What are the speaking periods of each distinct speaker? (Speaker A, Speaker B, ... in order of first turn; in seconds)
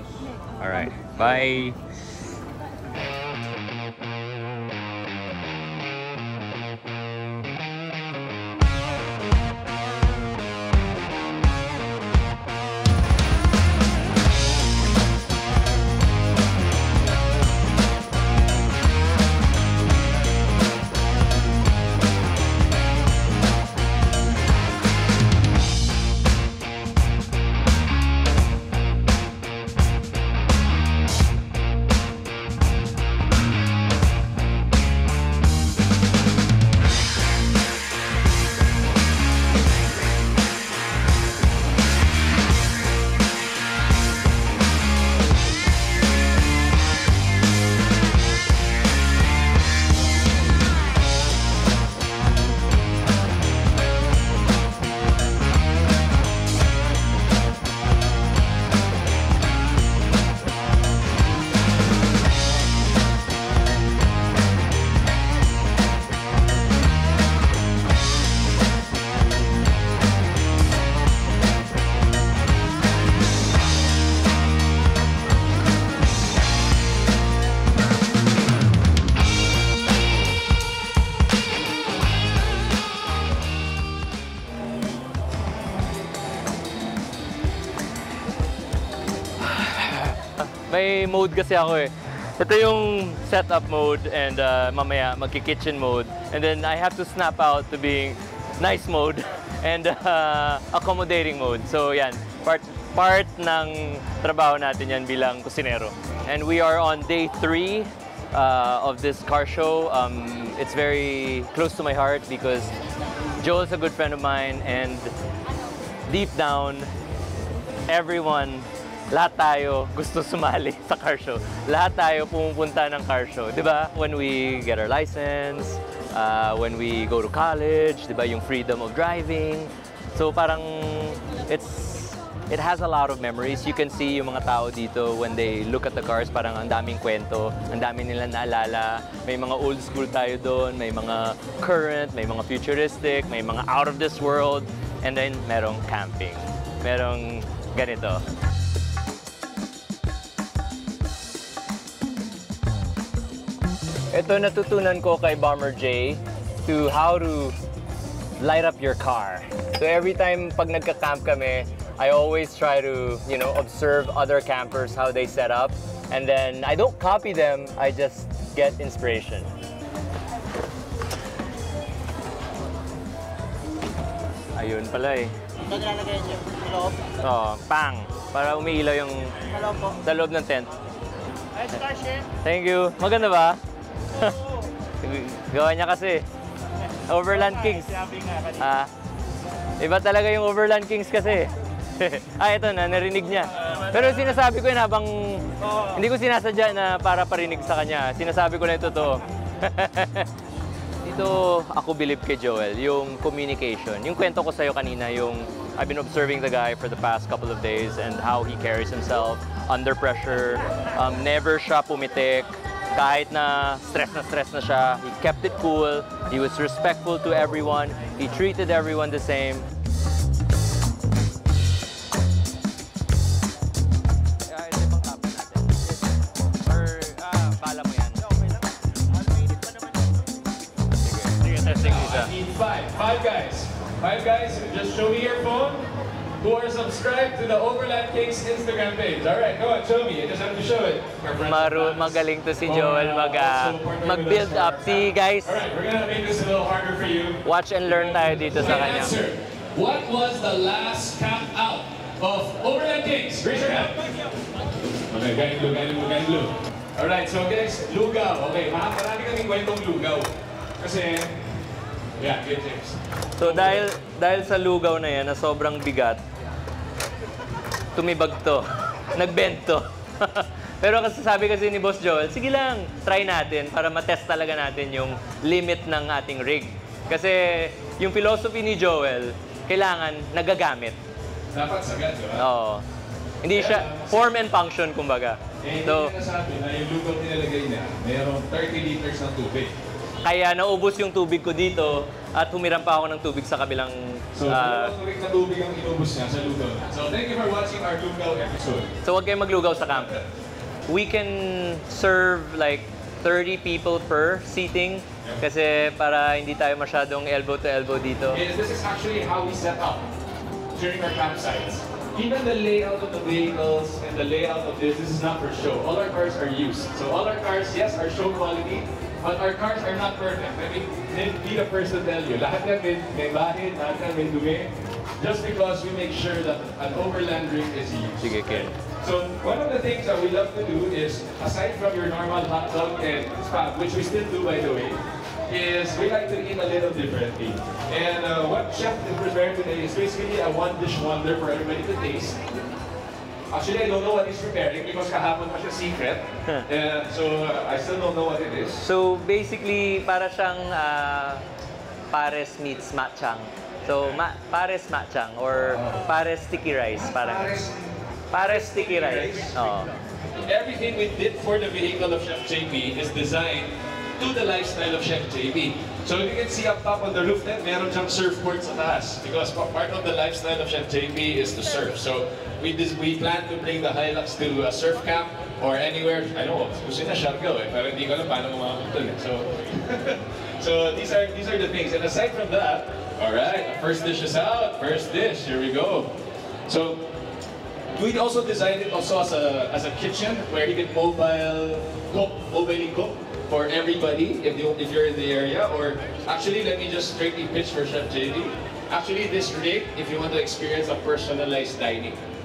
Speaker A: 0.6-1.8, 89.5-112.7, 113.4-115.1, 116.1-116.9, 117.9-148.2, 154.1-157.6, 158.4-169.5, 174.6-175.3, 177.2-179.4, 180.0-180.7, 182.4-183.6, 185.0-186.2, 187.1-188.9, 189.8-200.3, 201.0-219.7, 224.5-225.7, 226.6-228.2, 231.1-232.3, 241.4-245.6, 247.4-249.2, 263.4-266.2, 268.0-281.0, 282.4-282.9, 283.4-286.1, 290.2-294.9, 299.0-300.2, 300.9-308.4, 328.2-328.7, 348.8-351.4, 352.1-357.6, 358.3-359.9
Speaker B: 175.7-177.1, 179.5-180.0, 181.6-182.2, 229.3-229.8
Speaker C: 231.5-254.1, 255.1-261.4, 262.2-263.9, 281.5-282.5, 283.5-284.2, 285.6-289.8, 294.3-298.9, 308.3-310.1, 310.7-342.4, 343.5-348.8, 355.6-356.1, 356.9-357.9, 358.4-359.6, 360.5-387.2, 387.9-402.2